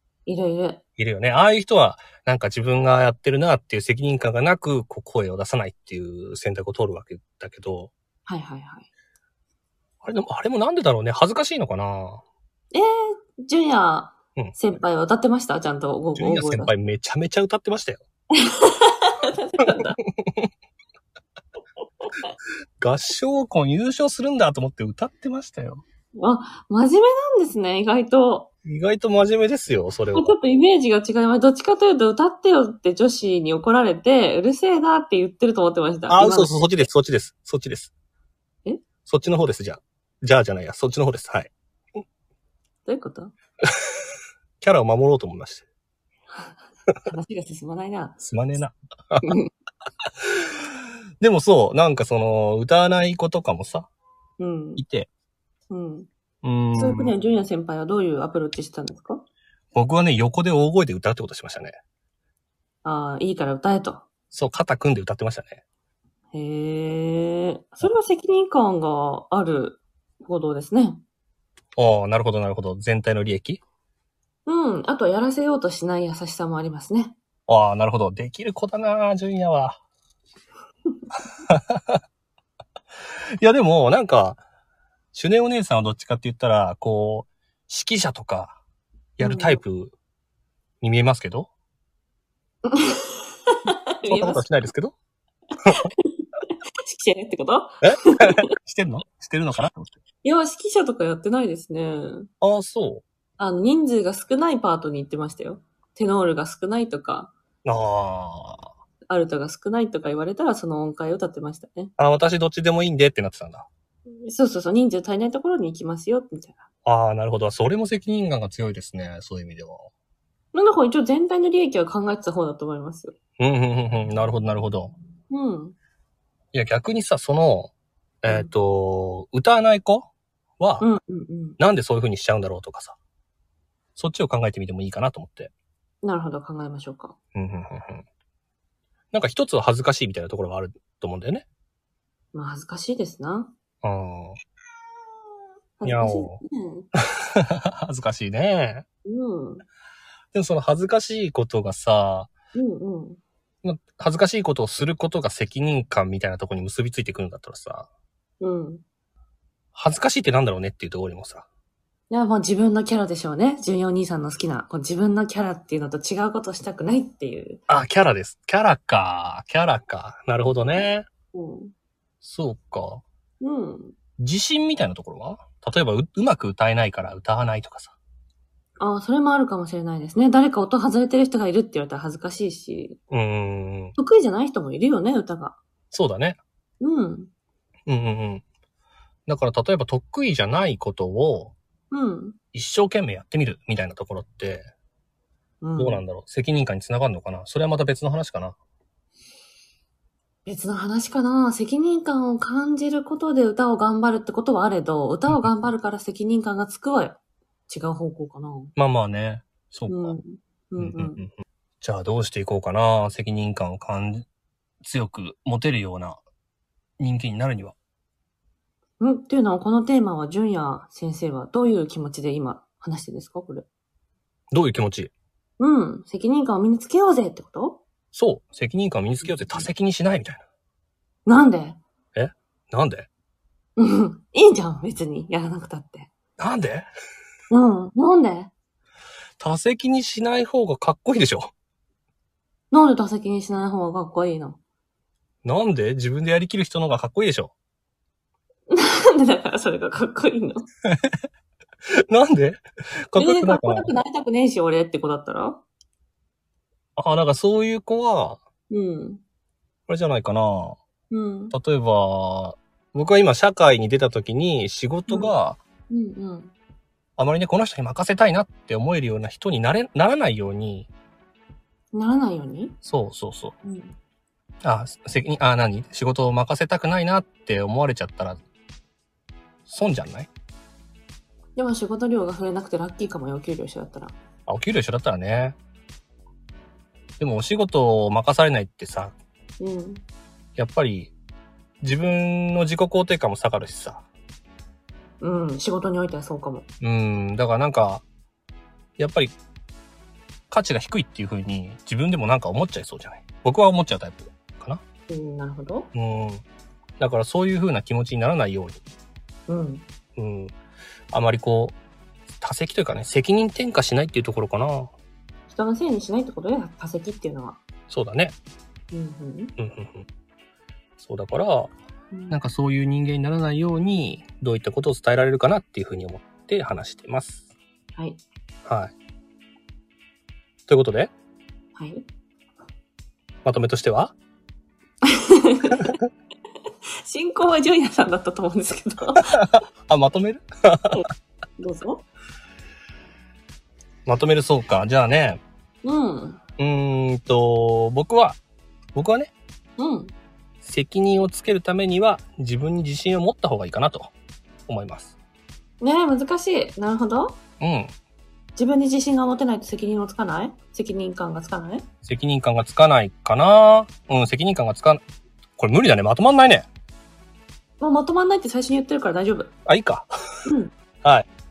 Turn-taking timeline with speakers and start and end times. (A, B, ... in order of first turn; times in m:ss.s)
0:00.3-0:00.8 A
0:01.0-0:07.9 B
0:08.3-0:08.9 A
0:10.0-0:12.2 B
0:12.7-0:16.7 A
0:16.2-0:18.0 B
0:18.4-0:20.0 A
0:19.7-0:20.5 B
0:22.0-0:22.3 A
0:22.8-0:25.8 B
0:26.2-0:28.5 A
0:28.6-0:30.3 B
0:30.1-0:36.9 A
0:36.1-0:37.9 B
0:39.1-0:41.5 B
0:42.8-0:43.3 A
0:44.6-0:45.7 B
0:47.1-0:48.2 A
0:48.2-0:49.4 B
0:49.2-0:49.5 A
0:51.2-0:53.9 B
0:54.4-0:54.8 A
0:54.8-0:55.1 B
0:55.7-0:56.1 A
0:56.4-0:57.1 B
0:56.8-0:59.2 A
0:59.7-1:01.8 B
1:02.8-1:04.0 A
1:04.3-1:05.6 B
1:06.3-1:11.0 A
1:11.8-1:13.6 B
1:14.4-1:17.2 A
1:17.5-1:19.8 B
1:21.5-1:22.0 B
1:23.4-1:24.4 B
1:25.1-1:28.6 B
1:29.2-1:29.9 B
1:29.2-1:29.6 A
1:30.8-1:31.5 B
1:32.7-1:34.4 A
1:34.0-1:35.0 B
1:36.1-1:38.4 A
1:37.8-1:40.0 B
1:40.2-1:42.3 A
1:42.4-1:43.0 B
1:43.4-1:47.3 A
1:47.6-1:48.7 B
1:49.1-1:51.9 A
1:52.0-1:53.7 B
1:54.2-1:56.7 A
1:56.8-1:59.9 B
2:00.5-2:03.2 A
2:03.4-2:04.9 B
2:05.3-2:05.8 A
2:06.5-2:10.9 B
2:10.8-2:11.6 A
2:11.6-2:13.0 B
2:14.0-2:15.5 B
2:16.0-2:17.2 A
2:17.4-2:18.0 B
2:19.1-2:21.4 B
2:22.3-2:23.5 A
2:23.8-2:24.4 B
2:25.8-2:26.9 A
2:25.8-2:26.4 B
2:27.0-2:28.9 B
2:29.0-2:29.6 A
2:30.3-2:32.3 B
2:32.5-2:33.2 A
2:33.6-2:37.9 B
2:38.4-2:38.8 A
2:39.8-2:41.5 B
2:42.1-2:47.6 A
2:47.7-2:51.1 B
2:51.3-2:51.7 A
2:52.2-2:53.0 B
2:53.4-2:54.0 A
2:54.2-2:58.0 B
2:58.8-3:03.0 A
3:03.1-3:04.0 B
3:04.0-3:05.6 A
3:05.9-3:06.4 B
3:06.8-3:07.3 A
3:07.9-3:08.4 B
3:09.3-3:11.5 B
3:11.9-3:12.4 A
3:12.5-3:14.7 B
3:15.6-3:16.0 A
3:15.8-3:18.6 B
3:20.4-3:28.7 A
3:28.8-3:30.2 B
3:29.9-3:31.2 A
3:30.8-3:34.3 B
3:34.8-3:36.2 B
3:37.0-3:37.8 B
3:39.0-3:43.7 A
3:44.5-3:45.1 B
3:45.6-3:47.8 A
3:48.1-3:50.4 B
3:49.2-3:49.7 A
3:51.3-3:51.8 A
3:52.2-3:53.1 B
3:53.8-3:56.1 A
3:56.4-3:56.9 B
3:57.5-3:58.5 A
3:59.4-4:01.5 B
4:02.7-4:04.6 A
4:05.4-4:07.5 B
4:08.7-4:10.7 A
4:10.9-4:11.2 B
4:12.1-4:13.9 B
4:13.2-4:15.6 A
4:17.0-4:18.4 B
4:18.7-4:19.2 A
4:19.9-4:20.8 B
4:21.1-4:21.6 A
4:21.5-4:25.6 B
4:25.9-4:26.5 A
4:27.2-4:30.9 B
4:31.9-4:32.8 A
4:32.8-4:33.5 B
4:33.6-4:33.9 A
4:34.6-4:38.4 B
4:39.7-4:40.3 B
4:41.6-4:44.2 A
4:44.5-4:45.6 B
4:47.2-4:49.1 B
4:49.6-4:50.0 A
4:50.6-4:51.1 B
4:51.8-4:54.0 B
4:55.2-4:56.7 A
4:56.8-4:58.0 B
4:59.0-4:59.3 B
5:00.5-5:04.8 B
5:05.1-5:05.9 A
5:05.9-5:06.4 B
5:07.0-5:08.8 B
5:09.5-5:09.8 A
5:10.2-5:10.5 B
5:11.1-5:11.8 B
5:12.4-5:14.9 B
5:15.5-5:17.6 A
5:17.9-5:18.4 B
5:18.9-5:19.5 A
5:19.6-5:20.1 B
5:21.0-5:21.7 B
5:22.1-5:22.4 A
5:22.3-5:27.5 B
5:28.0-5:28.2 A
5:28.6-5:28.9 B
5:30.7-5:31.1 B
5:31.8-5:32.0 A
5:33.4-5:34.1 B
5:35.0-5:36.0 A
5:37.1-5:39.4 A
5:39.4-5:41.0 B
5:40.9-5:42.0 A
5:44.1-5:45.4 B
5:45.8-5:46.4 A
5:46.6-5:48.4 B
5:49.0-5:49.3 B
5:49.8-5:50.1 A
5:50.6-5:54.1 B
5:54.7-5:55.2 B
5:55.8-5:57.4 A
5:57.6-5:57.9 B
5:58.6-6:01.8 A
6:02.0-6:05.0 B
6:05.6-6:06.7 B
6:07.8-6:09.5 A
6:09.7-6:10.1 B
6:10.5-6:10.7 A
6:11.0-6:11.3 B